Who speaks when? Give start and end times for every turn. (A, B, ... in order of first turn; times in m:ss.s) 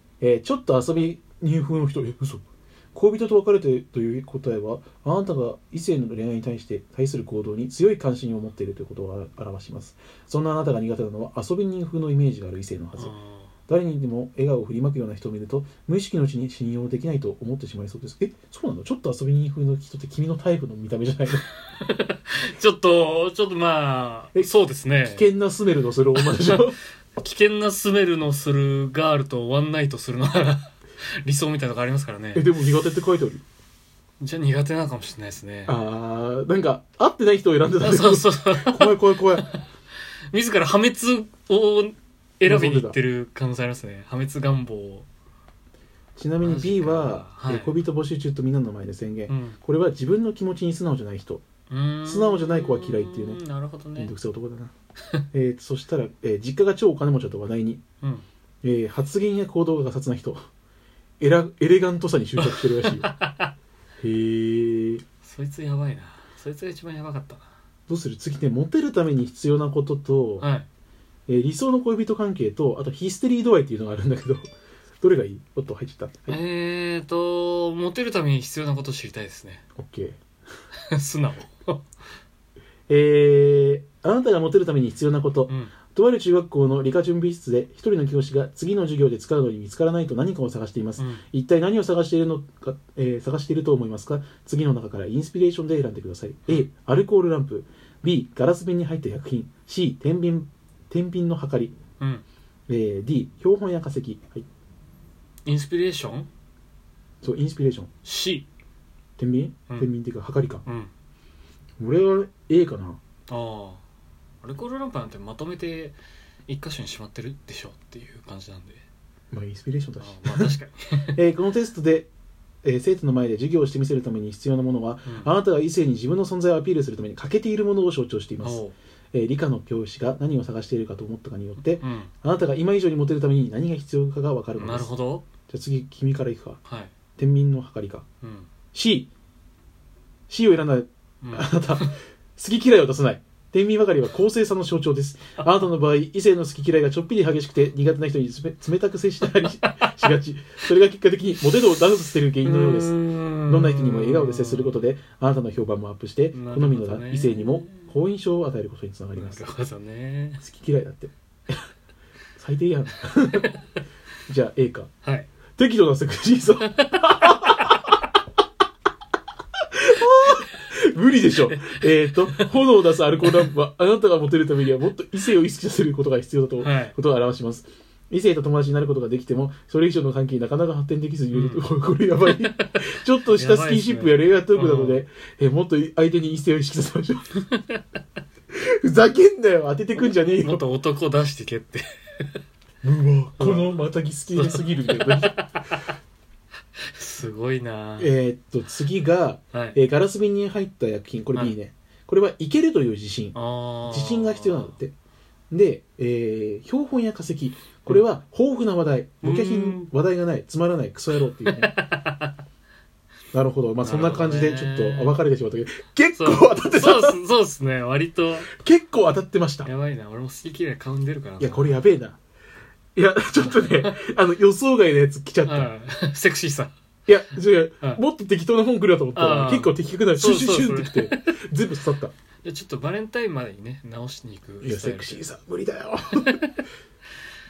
0:00.2-0:13.1 A
0:13.0-0:13.5 B
0:13.7-0:21.4 A
0:21.7-0:25.3 B
0:25.0-0:26.8 A
0:26.1-0:32.5 B
0:32.3-0:33.4 A
0:34.2-0:35.8 B
0:35.6-0:39.5 A
0:37.8-0:39.6 B
0:40.3-0:45.1 B
0:42.4-0:43.0 A
0:46.2-0:51.4 A
0:46.4-0:47.8 B
0:49.3-0:49.6 B
0:51.7-0:54.1 B
0:52.0-0:53.4 A
0:54.0-0:54.7 A
0:55.3-0:57.8 A
0:58.6-1:00.4 A
1:01.2-1:03.1 A
1:02.4-1:03.5 B
1:04.0-1:05.0 A
1:05.2-1:07.5 B
1:07.9-1:10.5 A
1:10.4-1:10.7 B
1:11.3-1:14.5 A
1:15.0-1:16.4 A
1:16.3-1:19.6 B
1:19.8-1:20.2 A
1:20.9-1:21.8 B
1:22.9-1:41.7 A
1:25.5-1:25.7 B
1:31.0-1:31.2 B
1:42.7-1:44.4 A
1:45.4-1:46.3 B
1:47.2-1:47.9 A
1:48.0-1:48.5 B
1:49.2-1:50.6 A
1:50.6-1:50.9 B
1:51.8-1:53.0 A
1:53.3-1:53.8 B
1:54.4-1:56.0 B
1:56.5-1:58.8 B
1:59.3-2:00.5 A
2:00.0-2:01.2 B
2:01.1-2:02.1 A
2:02.6-2:14.9 A
2:08.4-2:08.7 B
2:11.8-2:12.1 B
2:14.6-2:15.2 B
2:15.5-2:16.6 A
2:16.6-2:16.9 B
2:17.2-2:18.0 A
2:18.2-2:18.5 B
2:18.7-2:19.1 A
2:20.3-2:33.0 A
2:21.2-2:21.9 B
2:29.7-2:30.0 B
2:32.4-2:34.8 B
2:33.5-2:39.5 A
2:36.3-2:37.9 B
2:39.2-2:40.4 B
2:40.4-2:41.6 A
2:42.4-2:43.5 A
2:43.3-2:43.6 B
2:44.3-2:44.9 A
2:45.0-2:45.3 B
2:45.6-2:47.8 A
2:46.7-2:47.6 B
2:49.8-3:07.4 A
2:51.4-2:52.5 B
2:56.6-2:57.0 B
3:01.3-3:01.6 B
3:02.2-3:05.0 B
3:08.5-3:10.6 A
3:10.0-3:12.4 B
3:12.8-3:15.3 A
3:13.4-3:13.8 B
3:14.3-3:15.6 B
3:16.9-3:18.1 B
3:18.0-3:23.4 A
3:19.5-3:19.8 B
3:23.3-3:24.8 B
3:23.9-3:24.9 A
3:25.5-3:31.7 A
3:29.2-3:29.9 B
3:31.4-3:32.3 B
3:33.3-3:37.2 A
3:33.8-3:35.2 B
3:36.2-3:38.5 B
3:38.5-3:39.7 A
3:39.6-3:41.8 B
3:41.4-3:42.2 A
3:43.0-3:45.7 A
3:43.3-3:44.0 B
3:45.4-3:46.7 B
3:47.1-3:52.1 A
3:49.2-3:51.4 B
3:52.4-3:55.2 B
3:54.6-3:56.4 A
3:56.2-3:56.6 B